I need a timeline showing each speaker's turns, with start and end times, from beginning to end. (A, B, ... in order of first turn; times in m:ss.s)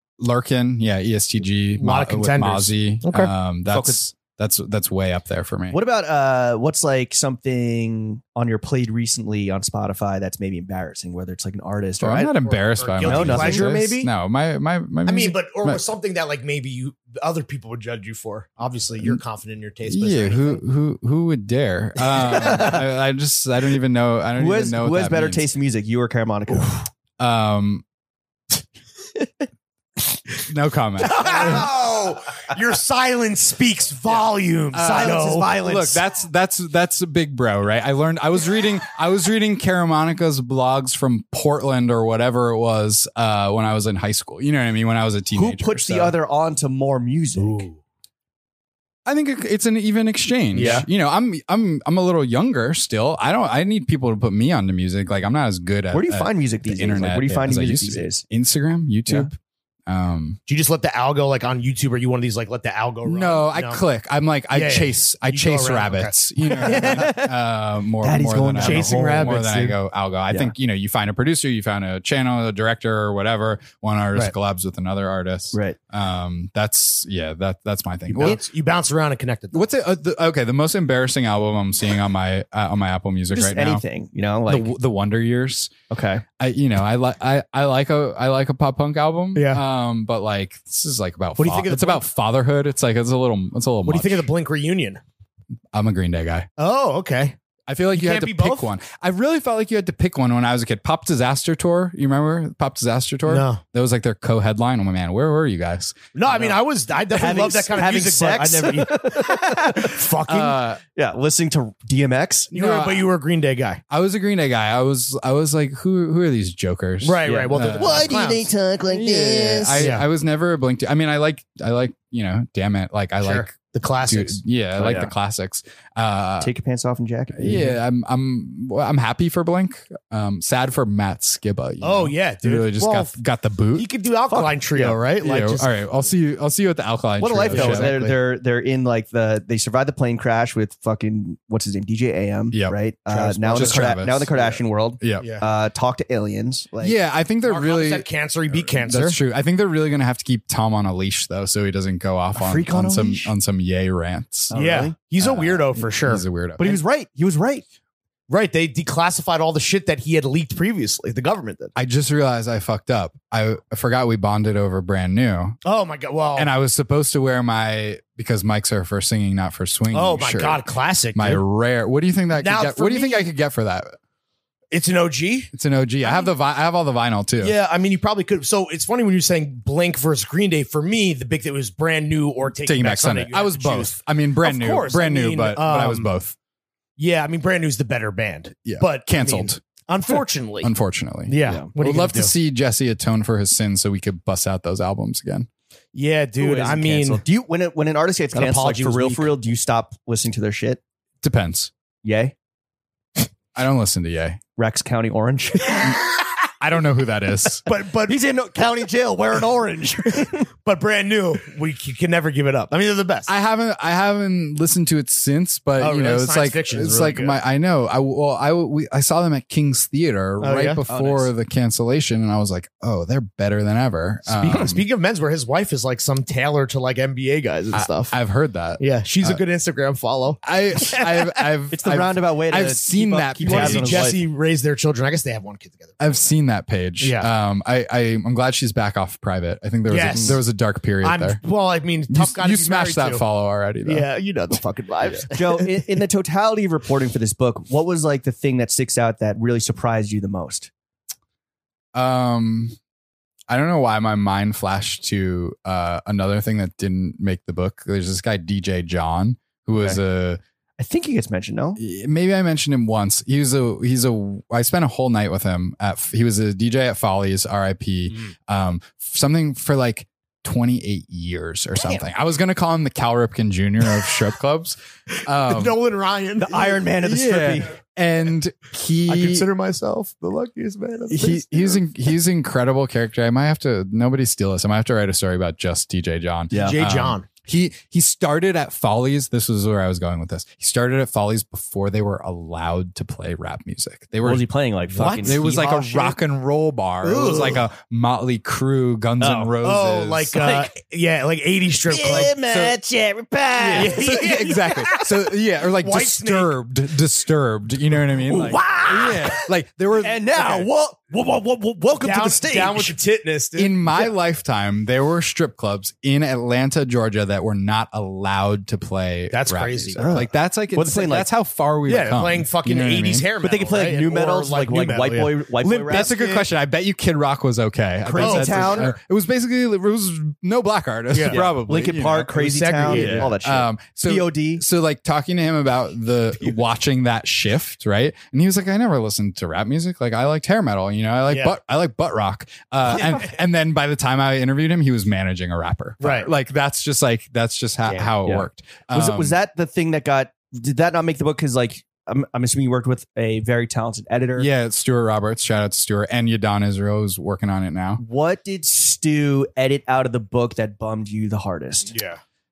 0:00.2-0:05.8 A
0:01.8-0:03.3 B
0:03.7-0:04.0 C
0:05.7-0:12.4 C
0:12.0-0:15.8 A
0:12.4-0:14.1 B
0:13.0-0:13.7 C
0:15.0-0:20.6 B
0:19.9-0:25.4 A
0:24.4-0:26.9 C
0:27.2-0:27.8 A
0:30.5-0:31.7 A
0:31.1-0:35.5 B
0:31.3-0:31.6 C
0:34.7-0:46.1 A
0:34.7-0:36.0 C
0:45.3-0:47.7 C
0:47.4-0:47.8 B
0:49.0-0:59.4 A
0:50.5-0:50.9 B
0:50.5-0:50.9 C
0:55.9-0:58.2 C
0:59.9-1:00.4 A
1:00.5-1:03.8 B
1:03.0-1:18.4 A
1:04.5-1:07.2 B
1:06.6-1:07.3 C
1:08.0-1:09.4 C
1:08.6-1:09.8 B
1:18.1-1:19.6 B
1:19.5-1:23.8 A
1:23.3-1:24.7 C
1:24.5-1:25.7 A
1:25.9-1:26.2 C
1:26.4-1:34.2 A
1:29.3-1:29.6 B
1:31.4-1:32.0 B
1:33.8-1:35.0 B
1:35.7-1:36.5 A
1:36.6-1:37.4 B
1:37.7-1:46.5 A
1:37.9-1:38.7 B
1:43.3-1:43.6 B
1:46.1-1:50.6 B
1:47.1-1:50.1 C
1:50.2-1:50.8 A
1:50.9-1:52.5 C
1:52.5-1:53.1 A
1:52.5-1:53.8 B
1:53.9-1:58.2 A
1:57.0-1:58.5 B
1:57.2-1:59.9 C
1:58.9-2:06.5 A
1:59.8-2:00.0 B
2:03.2-2:05.1 B
2:06.4-2:07.8 C
2:07.3-2:13.9 A
2:11.8-2:13.1 B
2:13.7-2:15.7 B
2:14.3-2:15.0 C
2:14.8-2:18.1 A
2:17.2-2:27.0 C
2:17.4-2:18.1 B
2:23.1-2:24.6 B
2:23.5-2:24.3 A
2:25.0-2:25.3 A
2:26.8-2:34.5 A
2:27.4-2:29.2 B
2:32.3-2:33.3 C
2:34.5-2:34.9 C
2:34.5-2:36.2 B
2:35.2-2:36.8 A
2:36.6-2:37.6 C
2:38.3-2:41.7 B
2:41.8-2:45.6 A
2:45.6-2:46.5 B
2:46.3-2:54.0 A
2:49.9-2:51.4 B
2:52.4-2:53.3 B
2:54.7-2:55.5 B
2:55.5-2:57.5 A
2:56.0-2:56.3 B
2:57.4-3:06.1 B
3:02.6-3:06.4 A
3:07.0-3:10.7 B
3:08.6-3:15.5 A
3:11.3-3:12.3 B
3:11.4-3:11.7 C
3:15.9-3:17.2 B
3:16.4-3:20.8 C
3:18.3-3:19.3 B
3:21.2-3:21.7 A
3:22.0-3:22.3 C
3:23.5-3:24.4 A
3:24.6-3:25.9 C
3:26.6-3:27.6 A
3:27.6-3:28.2 B
3:28.0-3:30.5 C
3:30.6-3:33.3 B
3:33.3-3:44.8 A
3:35.8-3:37.4 B
3:40.4-3:40.8 B
3:40.9-3:41.3 C
3:44.3-3:48.1 B
3:47.7-3:49.4 A
3:48.8-3:50.4 B
3:50.4-3:54.1 A
3:51.7-3:54.2 C
3:53.4-3:56.3 B
3:56.0-4:01.4 A
3:57.0-3:57.3 B
3:59.9-4:00.4 B
4:00.1-4:00.4 C
4:01.0-4:03.2 B
4:02.1-4:04.1 A
4:03.8-4:06.0 B
4:05.2-4:10.7 C
4:11.9-4:12.8 A
4:13.5-4:20.4 A
4:20.8-4:21.8 C
4:21.8-4:35.8 A
4:35.3-4:36.8 B
4:36.4-4:37.7 C
4:37.0-4:39.5 A
4:39.0-4:41.8 B
4:41.1-4:54.5 A
4:46.5-4:46.8 C
4:46.5-4:47.3 B
4:54.2-4:56.2 C
4:54.9-4:55.4 B
4:55.2-5:00.4 A
4:57.0-4:57.6 B
4:59.2-4:59.5 C
4:59.6-5:02.4 B
5:00.4-5:00.7 C
5:01.9-5:04.4 C
5:02.1-5:02.7 A
5:03.6-5:10.2 A
5:03.7-5:05.0 B
5:05.8-5:06.5 B
5:08.2-5:09.4 C
5:10.0-5:13.0 C
5:10.4-5:10.7 B
5:12.0-5:14.0 B
5:13.6-5:23.3 A
5:19.3-5:20.1 B
5:20.0-5:21.3 C
5:21.9-5:26.5 B
5:23.4-5:26.1 C
5:25.8-5:32.3 A
5:28.0-5:28.9 C
5:28.2-5:28.9 B
5:31.1-5:31.4 B
5:31.3-5:34.6 C
5:32.0-5:33.3 B
5:32.8-5:49.4 A
5:41.3-5:41.6 B
5:46.0-5:46.3 B
5:47.9-5:48.2 B
5:48.2-5:54.5 C
5:54.4-5:58.0 A
5:58.0-6:01.9 C
6:01.9-6:02.2 B